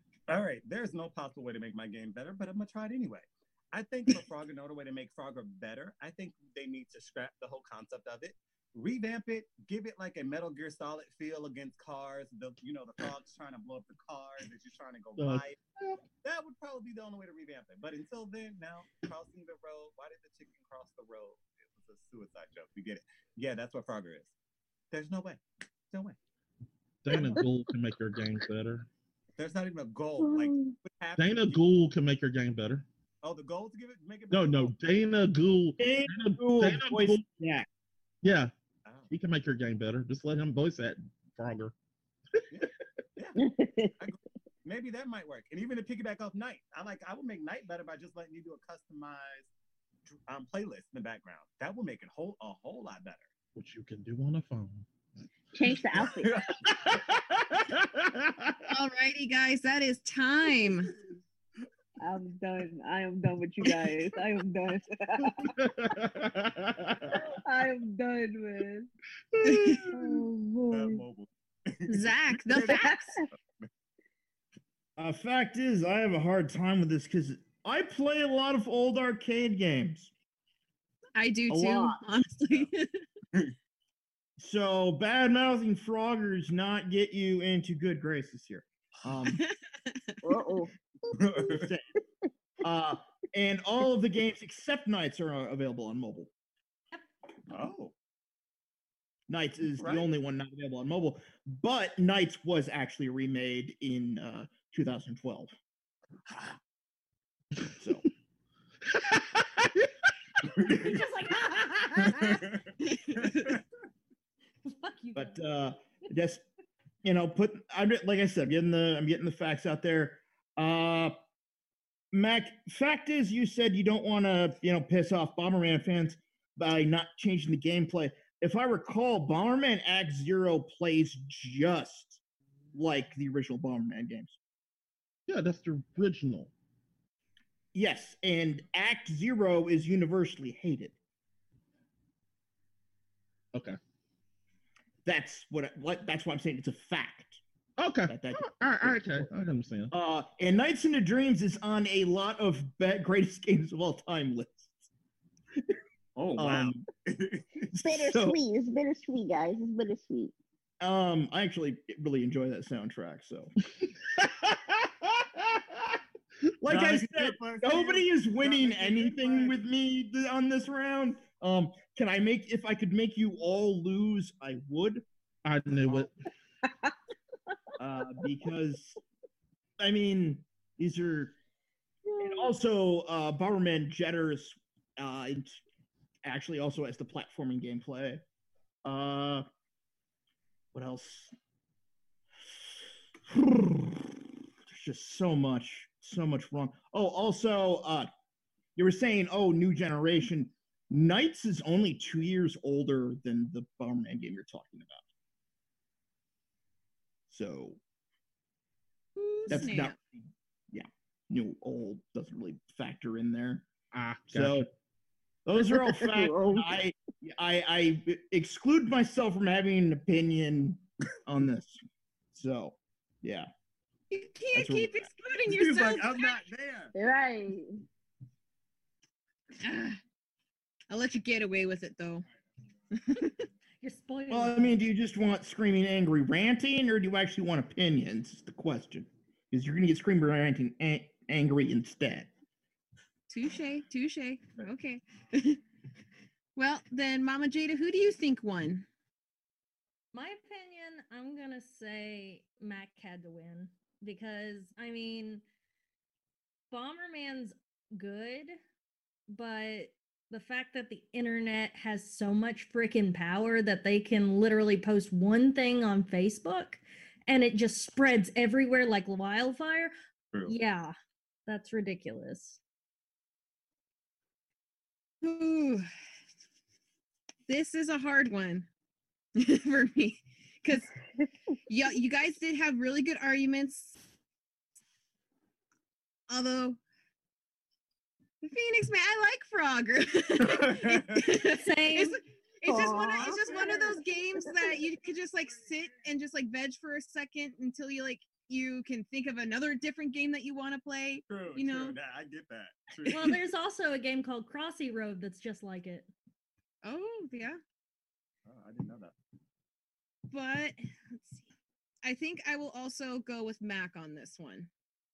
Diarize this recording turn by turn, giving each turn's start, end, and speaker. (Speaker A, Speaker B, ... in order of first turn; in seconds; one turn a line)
Speaker A: 0.3-15.6
Speaker B: 15.2-16.0
Speaker A: 16.2-24.3
Speaker A: 24.9-26.2
Speaker B: 27.0-28.9
Speaker A: 27.1-27.4
Speaker C: 27.1-27.4
Speaker A: 29.4-31.6
Speaker C: 30.2-30.8
Speaker B: 31.2-32.8
Speaker A: 33.2-34.8
Speaker B: 34.3-37.2
Speaker D: 35.8-37.7
Speaker B: 38.2-38.5
Speaker A: 38.8-39.1
Speaker B: 39.1-41.7
Speaker A: 42.5-43.4
Speaker C: 43.4-44.0
Speaker A: 44.0-49.5
Speaker A: 50.0-53.3
Speaker B: 53.5-54.9
Speaker C: 55.5-56.5
Speaker A: 55.9-57.0
Speaker B: 56.6-58.7
Speaker E: 58.7-60.9
Speaker C: 62.0-65.6
Speaker B: 65.3-67.2
Speaker C: 67.1-68.9
Speaker B: 69.3-70.2
Speaker E: 69.4-69.8
Speaker C: 69.9-71.0
Speaker A: 70.7-72.9
Speaker E: 71.9-73.2
Speaker C: 72.6-73.3
Speaker D: 75.0-80.1
Speaker E: 81.1-83.0
Speaker D: 81.5-82.0
Speaker A: 82.4-82.7
Speaker D: 84.4-89.4
Speaker E: 89.4-90.0
Speaker C: 90.2-90.7
Speaker A: 91.1-91.7
Speaker D: 91.4-91.8
Speaker D: 92.6-96.3
Speaker A: 97.5-97.9
Speaker D: 99.3-105.5
Speaker A: 99.8-100.1
Speaker D: 107.8-108.0
Speaker B: 108.9-109.9
Speaker F: 110.7-112.5
Speaker A: 112.2-113.6
Speaker F: 114.7-115.4
Speaker D: 115.1-116.4
Speaker D: 117.0-121.2
Speaker D: 122.1-132.2
Speaker D: 132.7-134.4
Speaker B: 135.3-136.5
Speaker D: 137.7-140.9
Speaker D: 145.0-147.4
Speaker B: 147.8-149.9
Speaker D: 148.1-149.3
Speaker D: 149.9-154.9
Speaker A: 156.2-157.7
Speaker D: 156.4-156.8
Speaker D: 157.7-158.4
Speaker C: 157.8-160.3
Speaker D: 160.8-163.5
Speaker B: 164.0-166.0
Speaker D: 166.6-175.0
Speaker A: 166.7-169.6
Speaker B: 175.4-176.1
Speaker D: 177.8-179.0
Speaker D: 179.8-181.3
Speaker C: 182.1-182.5
Speaker D: 182.2-185.6
Speaker D: 186.2-188.2
Speaker D: 188.8-189.4
Speaker D: 190.7-191.3
Speaker D: 193.3-198.1
Speaker D: 198.8-205.0
Speaker D: 207.3-207.8
Speaker E: 209.2-209.9
Speaker D: 209.5-213.7
Speaker B: 213.9-214.7
Speaker D: 214.3-214.7
Speaker D: 215.4-221.8
Speaker C: 215.6-216.8
Speaker D: 222.3-223.5
Speaker E: 224.1-226.4
Speaker D: 224.5-225.1
Speaker A: 225.4-226.9
Speaker C: 226.9-227.8
Speaker E: 229.6-230.0
Speaker E: 230.9-232.2
Speaker E: 232.9-233.5
Speaker F: 233.8-234.7
Speaker D: 234.3-242.3
Speaker E: 243.3-245.6
Speaker E: 246.6-248.9
Speaker F: 250.1-255.4
Speaker F: 256.7-258.6
Speaker F: 259.3-269.9
Speaker F: 270.5-270.9
Speaker F: 271.5-272.6
Speaker E: 275.2-275.9
Speaker E: 277.5-278.7
Speaker E: 279.4-280.9
Speaker E: 281.7-284.0
Speaker E: 286.3-286.8
Speaker E: 288.4-302.0
Speaker A: 290.4-291.3
Speaker F: 291.4-292.2
Speaker C: 292.6-294.8
Speaker A: 301.3-303.4
Speaker F: 303.1-306.1
Speaker E: 306.8-307.6
Speaker A: 308.4-309.1
Speaker E: 310.3-311.4
Speaker E: 312.0-314.7